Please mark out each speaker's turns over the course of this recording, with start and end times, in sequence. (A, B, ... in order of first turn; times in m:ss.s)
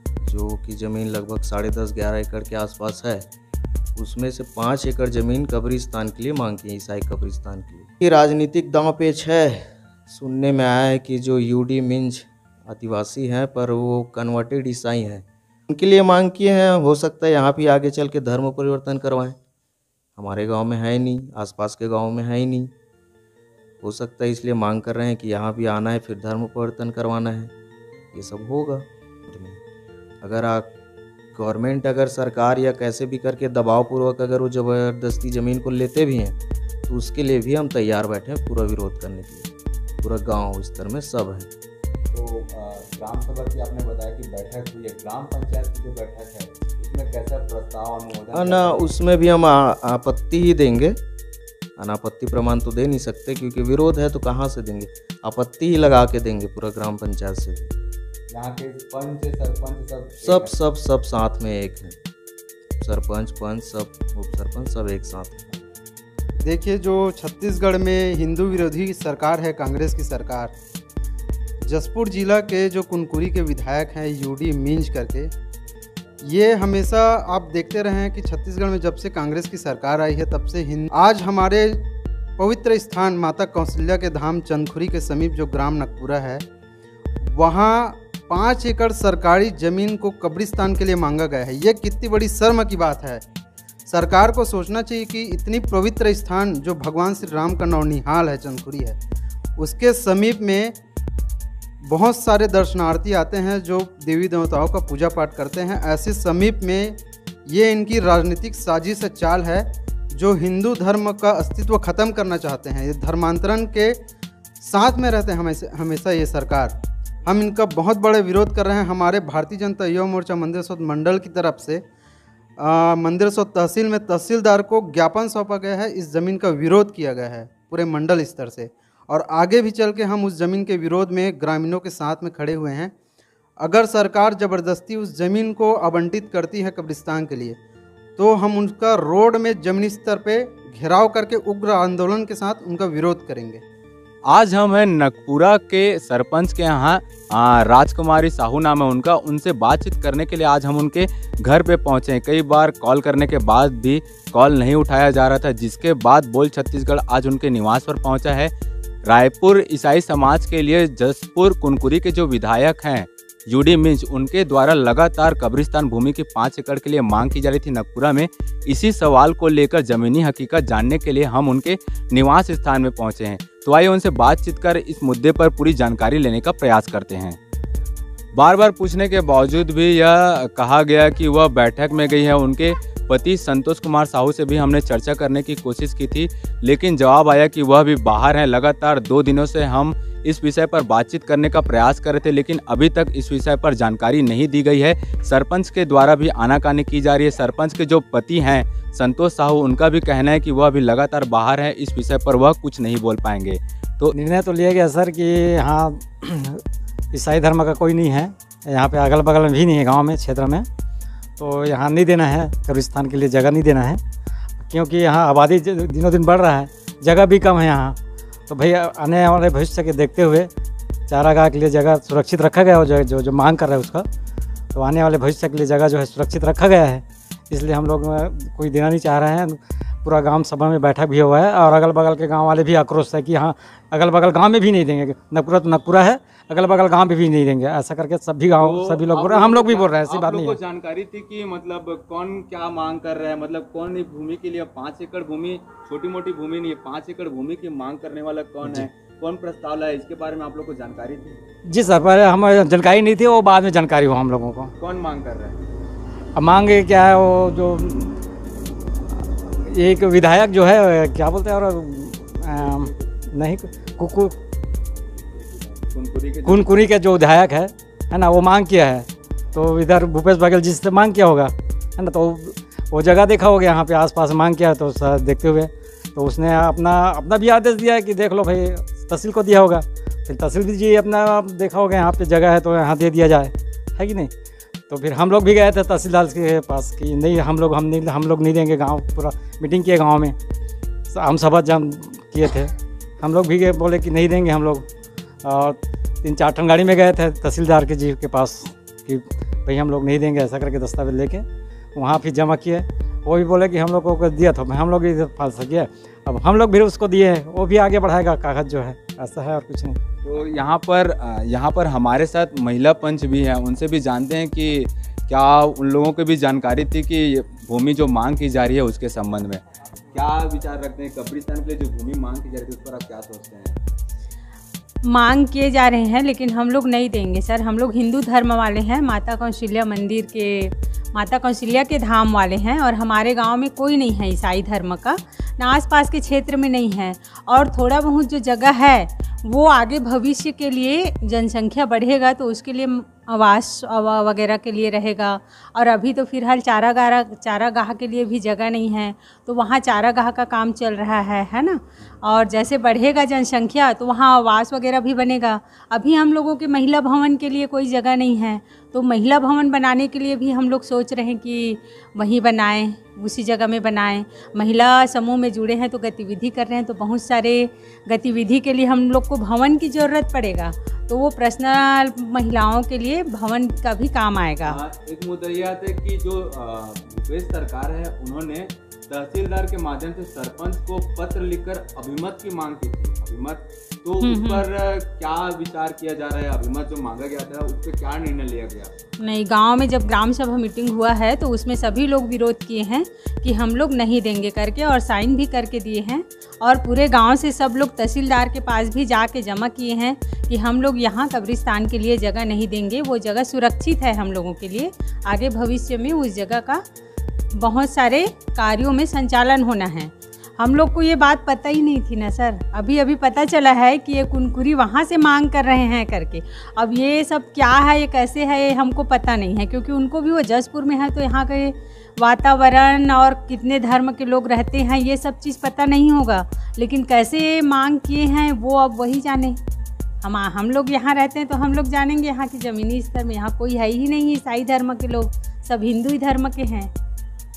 0:00.2-0:03.3 A
0:04.0-0:19.4 A
0:20.2-0:22.7 A
0:23.8-0:27.5 A
0:28.1-0:29.6 A
0:30.2-0:30.7 A
0:31.3-0:41.5 A
0:42.1-0:48.8 B
0:48.3-0:51.0 A
0:51.8-0:57.7 A
0:58.3-1:00.5 B
1:00.2-1:02.0 A
1:02.8-1:05.5 A
1:06.5-1:10.5 C
1:11.6-1:15.3 C
1:16.2-1:21.9 C
1:22.4-1:26.4 C
1:27.3-1:33.2 C
1:33.9-1:39.0 C
1:39.6-1:40.8 C
1:41.8-1:54.0 C
1:54.6-1:56.7 C
1:57.3-2:01.8 C
2:02.6-2:12.9 C
2:13.6-2:17.6 C
2:18.2-2:23.6 C
2:24.3-2:38.5 B
2:39.1-2:57.4 B
2:58.3-3:24.1 B
3:24.1-3:26.6 D
3:27.1-3:30.7 D
3:31.4-3:34.0 D
3:34.6-3:38.0 D
3:38.5-3:40.5 D
3:41.1-3:44.1 D
3:44.7-4:00.6 D
3:58.6-4:11.4 B
4:11.7-4:14.7 D
4:14.8-4:15.6 B
4:16.4-4:18.2 D
4:19.5-4:24.3 D
4:22.6-4:22.9 B
4:25.6-4:26.7 B
4:26.5-4:44.3 D
4:44.9-4:50.4 D
4:51.1-4:54.8 D
4:55.4-5:10.0 D
5:10.2-5:19.6 B
5:20.1-5:23.8 B
5:25.1-6:14.8 E
6:14.7-6:28.9 B
6:24.2-6:24.7 E
6:29.2-6:46.8 E
6:47.6-7:09.6 E
7:10.2-7:16.9 E